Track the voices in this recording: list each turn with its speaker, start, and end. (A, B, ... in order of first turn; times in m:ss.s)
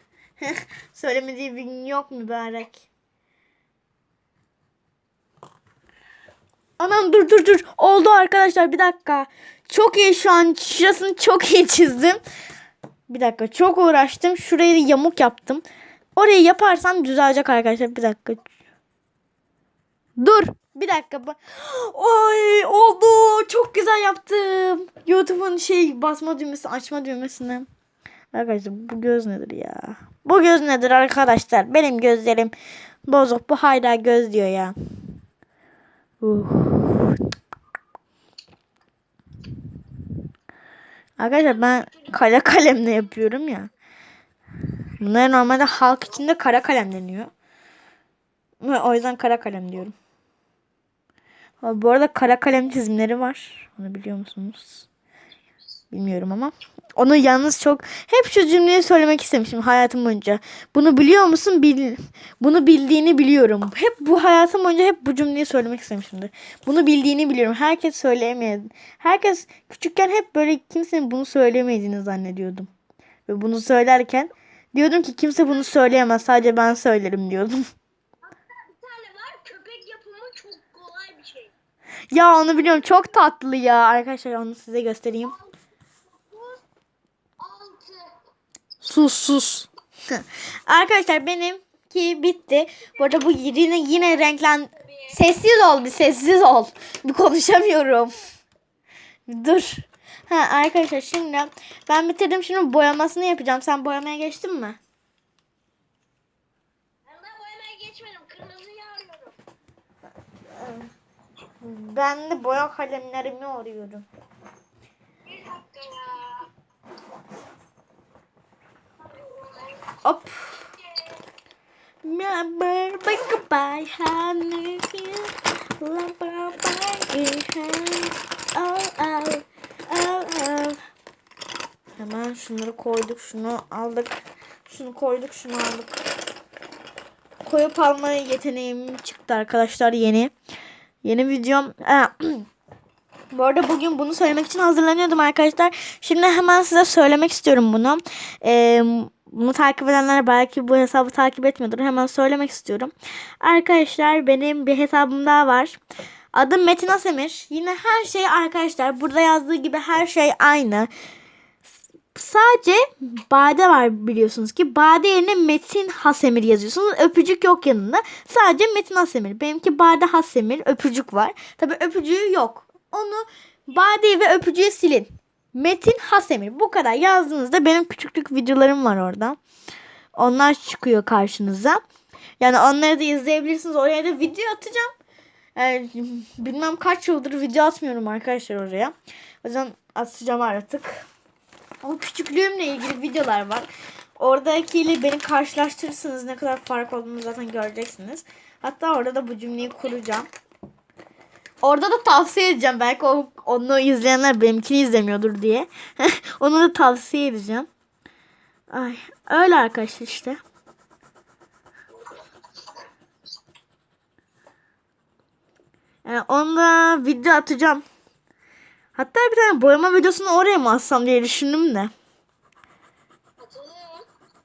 0:00.4-0:02.9 A
0:06.8-0:12.2 A
0:13.1-0:15.6 A
0:16.2-0:18.5 A
0:20.2-0:27.7 A
0:28.3-0:32.5 A
0:33.1-0:34.8 A
0:36.2-0:37.2 A
0:41.2-0:43.7 A
0:41.3-0:42.4 B
0:45.0-0:47.3 A
0:48.6-0:50.0 A
0:51.6-0:54.9 A
0:55.9-1:12.7 A
1:13.3-1:17.6 A
1:18.2-1:21.5 B
1:22.1-1:25.4 A
1:22.5-1:23.1 B
1:25.2-1:25.5 B
1:26.1-1:26.6 B
1:27.4-1:28.2 B
1:28.8-1:38.3 A
1:34.8-1:35.2 B
1:39.3-1:44.8 A
1:47.0-1:49.4 B
1:50.5-1:50.9 A
1:51.6-1:54.1 A
1:55.2-1:56.5 B
1:59.0-2:00.0 B
2:00.0-2:00.7 A
2:00.8-2:01.2 B
2:02.0-2:10.8 A
2:12.0-2:16.0 A
2:17.4-2:20.3 A
2:21.0-2:22.5 A
2:23.3-2:35.8 A
2:36.3-2:40.9 A
2:42.1-2:59.4 A
3:00.2-3:01.8 A
3:02.4-3:04.9 A
3:05.6-3:11.1 A
3:11.8-3:20.3 A
3:21.6-3:27.7 A
3:28.7-3:30.4 A
3:36.0-3:37.8 A
3:39.0-3:41.9 A
3:43.4-3:44.1 B